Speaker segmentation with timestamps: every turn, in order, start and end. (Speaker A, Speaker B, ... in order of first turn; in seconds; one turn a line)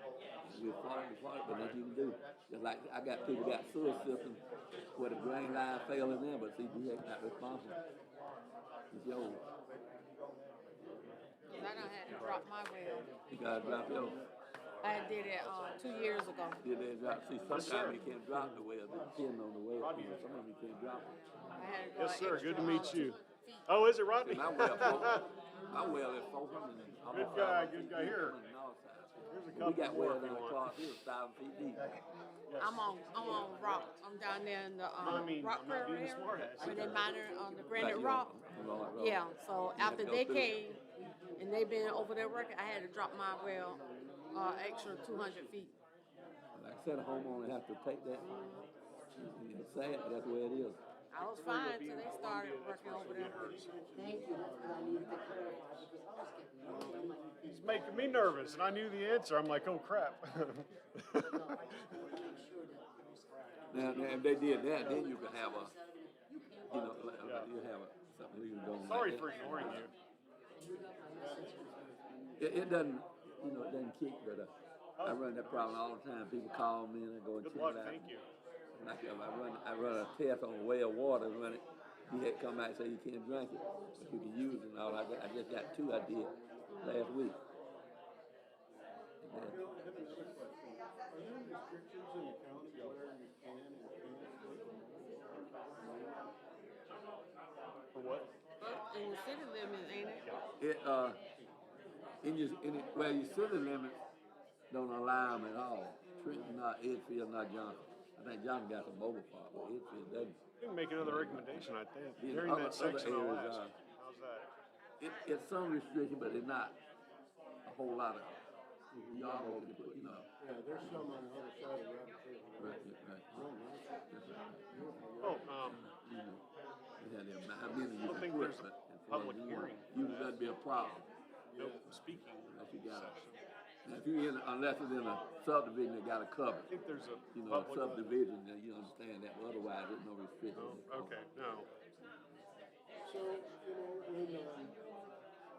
Speaker A: 0.5-4.4
Speaker B: 1.5-1.8
Speaker C: 3.4-4.1
Speaker A: 4.9-7.8
Speaker C: 5.0-6.2
Speaker C: 7.4-8.0
Speaker A: 8.9-9.4
Speaker C: 9.0-14.2
Speaker D: 11.5-14.2
Speaker B: 12.1-12.4
Speaker A: 13.3-14.2
Speaker D: 14.8-16.6
Speaker C: 14.8-15.2
Speaker A: 16.6-21.1
Speaker B: 17.5-18.6
Speaker C: 18.9-19.2
Speaker B: 19.8-20.3
Speaker D: 21.5-23.8
Speaker B: 22.0-25.4
Speaker A: 24.2-31.9
Speaker D: 24.4-26.1
Speaker B: 27.1-28.4
Speaker B: 29.3-30.9
Speaker B: 32.5-33.7
Speaker D: 32.5-38.3
Speaker B: 35.0-37.1
Speaker C: 36.6-38.9
Speaker A: 37.8-40.6
Speaker D: 38.9-40.8
Speaker D: 41.4-45.7
Speaker C: 43.4-45.6
Speaker A: 46.5-48.3
Speaker D: 48.2-48.7
Speaker A: 49.2-50.8
Speaker D: 51.1-57.2
Speaker B: 51.2-53.7
Speaker C: 53.2-56.0
Speaker E: 54.0-57.2
Speaker C: 56.6-58.7
Speaker B: 57.5-61.6
Speaker D: 61.3-62.6
Speaker E: 61.4-62.8
Speaker C: 61.7-62.6
Speaker C: 63.7-64.3
Speaker A: 63.7-65.7
Speaker D: 64.0-67.2
Speaker E: 66.4-66.7
Speaker A: 66.7-69.9
Speaker B: 67.2-67.5
Speaker B: 68.8-69.9
Speaker D: 70.6-71.8
Speaker C: 70.7-72.8
Speaker A: 72.4-78.1
Speaker B: 75.0-75.8
Speaker B: 77.4-78.3
Speaker A: 78.8-87.4
Speaker C: 86.2-86.7
Speaker D: 86.7-87.1
Speaker A: 89.2-89.6
Speaker C: 89.3-96.3
Speaker B: 97.9-98.3
Speaker D: 98.6-100.3
Speaker A: 100.6-101.2
Speaker A: 102.2-104.0
Speaker A: 104.7-110.4
Speaker D: 106.0-106.5
Speaker B: 110.6-114.5
Speaker A: 111.0-113.8
Speaker A: 115.0-116.8
Speaker A: 117.7-118.4
Speaker C: 118.9-124.1
Speaker A: 119.1-120.3
Speaker A: 122.6-123.5
Speaker A: 124.1-124.6
Speaker C: 124.7-125.5
Speaker B: 125.2-125.8
Speaker A: 125.7-126.4
Speaker A: 127.0-131.1
Speaker B: 128.0-131.0
Speaker C: 131.5-132.0
Speaker B: 131.6-133.4
Speaker A: 132.4-133.2
Speaker A: 133.8-136.7
Speaker B: 136.7-138.2
Speaker A: 137.3-141.2
Speaker B: 140.5-141.7
Speaker C: 143.0-144.8